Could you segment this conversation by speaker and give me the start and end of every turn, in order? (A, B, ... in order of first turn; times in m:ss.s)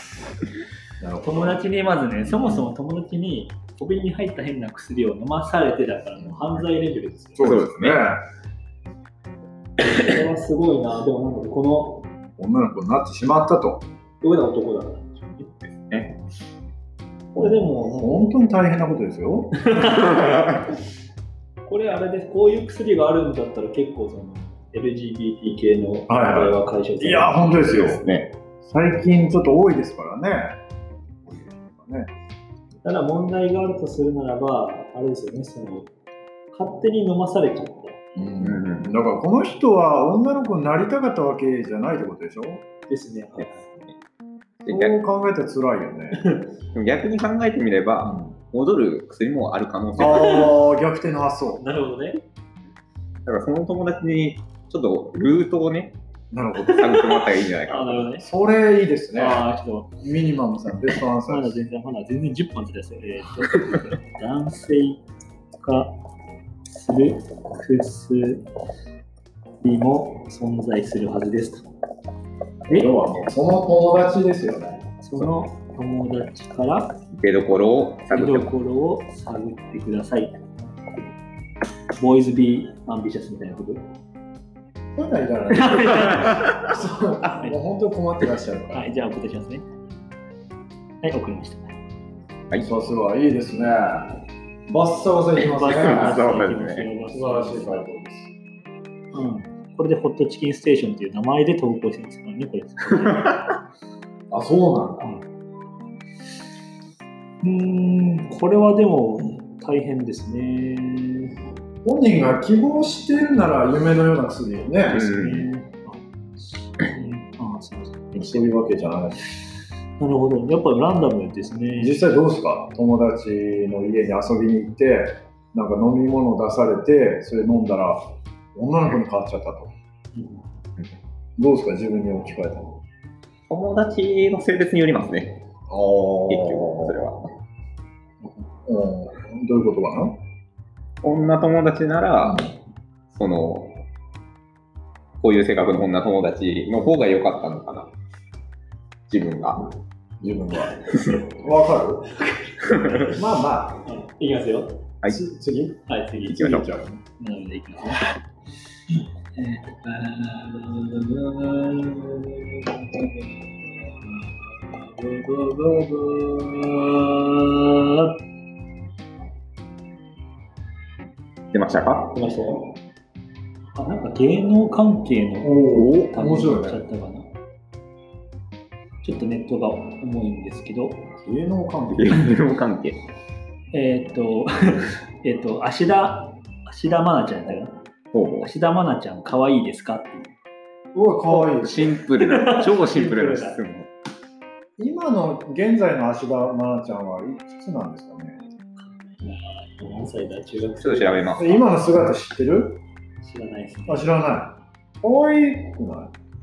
0:01.0-0:01.6 A
0:01.2-0:07.4 B
0:07.4-0:08.2 A
0:07.4-0:08.0 C
0:09.8-0:12.1 B
0:12.4-0:13.8 A
0:14.2-0:15.4 B
0:15.7-0:16.2 C
0:17.4-0:18.4 B
0:17.4-0:19.6 A
0:19.6-0:20.2 B
0:19.8-0:20.7 C
0:21.7-0:28.0 B
0:26.1-0:30.6 A
0:27.8-0:28.2 C
0:31.5-0:32.1 A
0:32.8-0:35.9 B
0:36.5-0:38.0 B
0:38.2-0:42.6 A
0:38.4-0:38.9 C
0:42.9-0:43.7 B
0:44.6-0:45.0 C
0:44.7-0:46.4 A
0:46.7-0:50.5 C
0:48.0-0:48.3 A
0:50.0-0:51.6 A
0:51.6-0:52.2 B
0:53.2-0:56.0 C
0:56.3-0:57.2 A
0:56.7-0:58.1 C
0:57.7-0:58.2 B
0:58.2-0:59.4 A
0:59.2-0:59.9 B
1:00.0-1:01.6 A
1:01.2-1:05.0 B
1:05.6-1:05.9 B
1:06.7-1:08.4 B
1:09.6-1:11.6 B
1:12.7-1:14.8 A
1:15.0-1:17.0 B
1:17.1-1:18.5 C
1:18.1-1:20.4 B
1:21.9-1:23.8 B
1:25.0-1:28.9 A
1:25.5-1:26.5 B
1:28.7-1:29.6 B
1:31.0-1:31.7 B
1:32.6-1:36.2 A
1:35.4-1:37.8 B
1:35.5-1:36.9 C
1:37.1-1:38.3 A
1:39.1-1:43.5 B
1:44.3-1:45.1 A
1:47.4-1:51.4 B
1:51.8-1:55.0 A
1:54.9-1:58.5 B
1:54.9-1:55.5 C
1:58.2-1:59.2 A
2:00.0-2:02.0 B
2:01.8-2:09.7 A
2:11.4-2:12.8 A
2:13.5-2:15.4 C
2:15.7-2:17.0 A
2:16.3-2:17.3 C
2:18.6-2:20.2 A
2:21.0-2:22.5 C
2:22.2-2:22.5 A
2:23.1-2:23.8 C
2:25.2-2:27.9 C
2:29.1-2:29.7 C
2:30.2-2:32.3 A
2:30.8-2:31.2 C
2:32.7-2:33.1 C
2:32.9-2:33.8 A
2:33.8-2:34.8 B
2:35.0-2:37.0 A
2:35.9-2:36.6 B
2:36.4-2:36.7 C
2:37.2-2:38.1 B
2:39.4-2:43.5 B
2:44.0-2:48.2 B
2:51.5-2:52.1 C
2:52.1-2:52.8 B
2:53.8-2:57.3 B
2:55.4-2:56.8 A
2:55.7-2:56.0 C
2:59.0-3:01.1 B
3:01.2-3:02.3 A
3:01.9-3:03.0 C
3:03.7-3:07.8 B
3:08.1-3:08.5 C
3:08.4-3:10.3 B
3:10.9-3:11.9 A
3:11.6-3:13.9 C
3:12.0-3:13.6 B
3:14.8-3:18.4 A
3:19.2-3:21.4 B
3:20.8-3:21.6 C
3:21.4-3:22.8 A
3:23.2-3:24.1 B
3:23.9-3:26.1 A